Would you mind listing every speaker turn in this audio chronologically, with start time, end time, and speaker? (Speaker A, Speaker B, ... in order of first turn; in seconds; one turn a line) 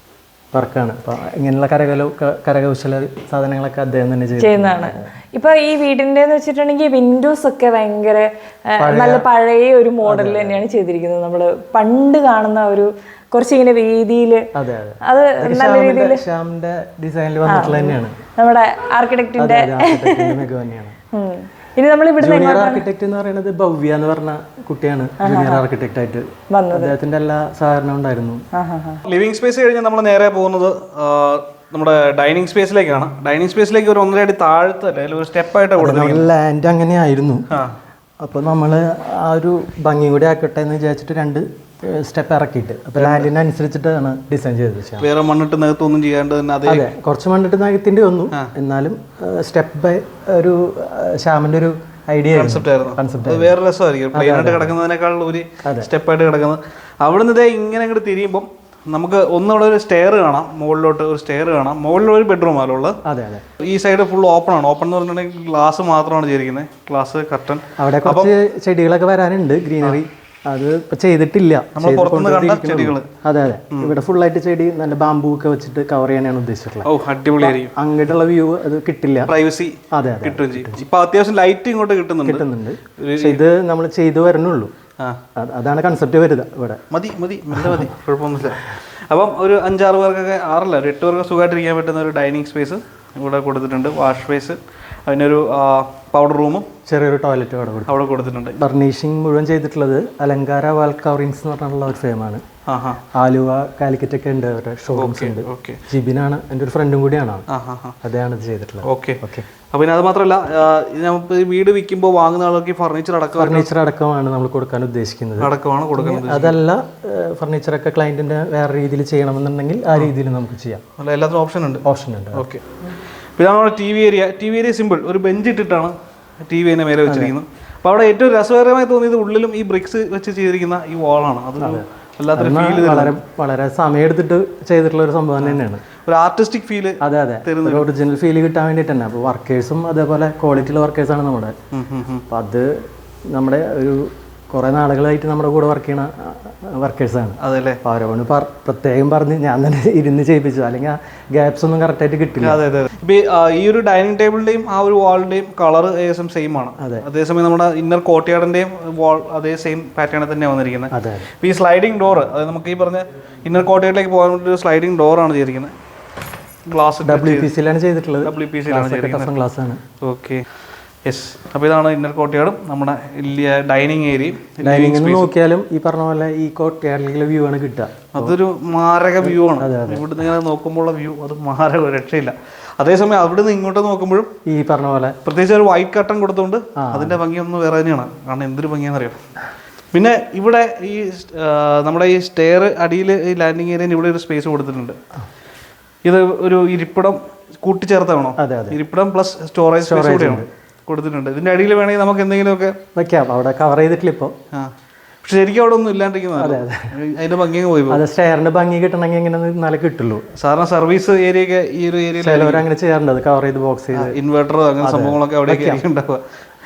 Speaker A: 0.5-5.1
Speaker B: 4.4-14.4
Speaker A: 8.8-9.2
Speaker A: 10.0-10.6
Speaker A: 14.5-18.2
Speaker B: 15.1-16.2
Speaker B: 17.5-20.4
Speaker A: 19.4-21.0
Speaker B: 21.1-22.8
Speaker A: 22.2-28.4
Speaker B: 25.2-25.6
Speaker B: 26.5-26.9
Speaker B: 28.5-29.0
Speaker C: 29.0-36.3
Speaker A: 35.8-37.5
Speaker C: 37.5-37.8
Speaker A: 38.2-45.1
Speaker C: 42.9-43.3
Speaker C: 45.0-46.9
Speaker A: 46.6-53.6
Speaker C: 52.3-63.0
Speaker A: 54.1-54.8
Speaker A: 55.6-55.9
Speaker A: 63.0-63.4
Speaker C: 63.6-68.3
Speaker A: 67.8-79.3
Speaker C: 71.7-73.1
Speaker C: 76.8-77.7
Speaker C: 79.3-82.5
Speaker A: 79.9-80.8
Speaker A: 82.2-84.7
Speaker C: 83.0-83.4
Speaker A: 85.3-86.8
Speaker C: 86.9-96.7
Speaker A: 87.5-87.9
Speaker A: 96.9-97.9
Speaker C: 97.9-98.6
Speaker A: 98.6-102.4
Speaker C: 102.7-103.0
Speaker A: 103.1-107.5
Speaker C: 104.9-105.8
Speaker C: 107.5-108.0
Speaker A: 108.0-109.5
Speaker C: 108.8-113.7
Speaker A: 113.3-120.8
Speaker C: 115.4-116.6
Speaker C: 121.0-122.7
Speaker A: 121.8-122.5
Speaker C: 123.4-125.9
Speaker C: 126.5-133.1
Speaker A: 127.0-127.3
Speaker A: 131.6-135.8
Speaker C: 135.4-137.9
Speaker A: 137.0-141.5
Speaker C: 141.7-142.2
Speaker A: 142.3-142.7
Speaker A: 143.3-152.6
Speaker C: 147.4-147.8
Speaker C: 152.4-165.7
Speaker A: 156.8-157.1
Speaker A: 160.9-161.3
Speaker C: 166.7-167.5
Speaker A: 167.0-169.8
Speaker C: 168.2-169.3
Speaker C: 170.0-170.4
Speaker C: 171.1-175.3
Speaker A: 174.6-178.3
Speaker C: 178.1-184.3
Speaker A: 179.2-180.2
Speaker A: 184.5-185.2
Speaker C: 185.2-189.2
Speaker A: 186.8-187.2
Speaker C: 189.9-195.0
Speaker C: 196.0-202.8
Speaker A: 198.4-198.8
Speaker A: 199.8-200.5
Speaker A: 202.9-204.3
Speaker C: 205.2-208.0
Speaker A: 206.4-206.9
Speaker A: 207.9-210.2
Speaker C: 210.4-212.6
Speaker A: 212.2-214.2
Speaker C: 213.9-216.2
Speaker A: 214.8-215.8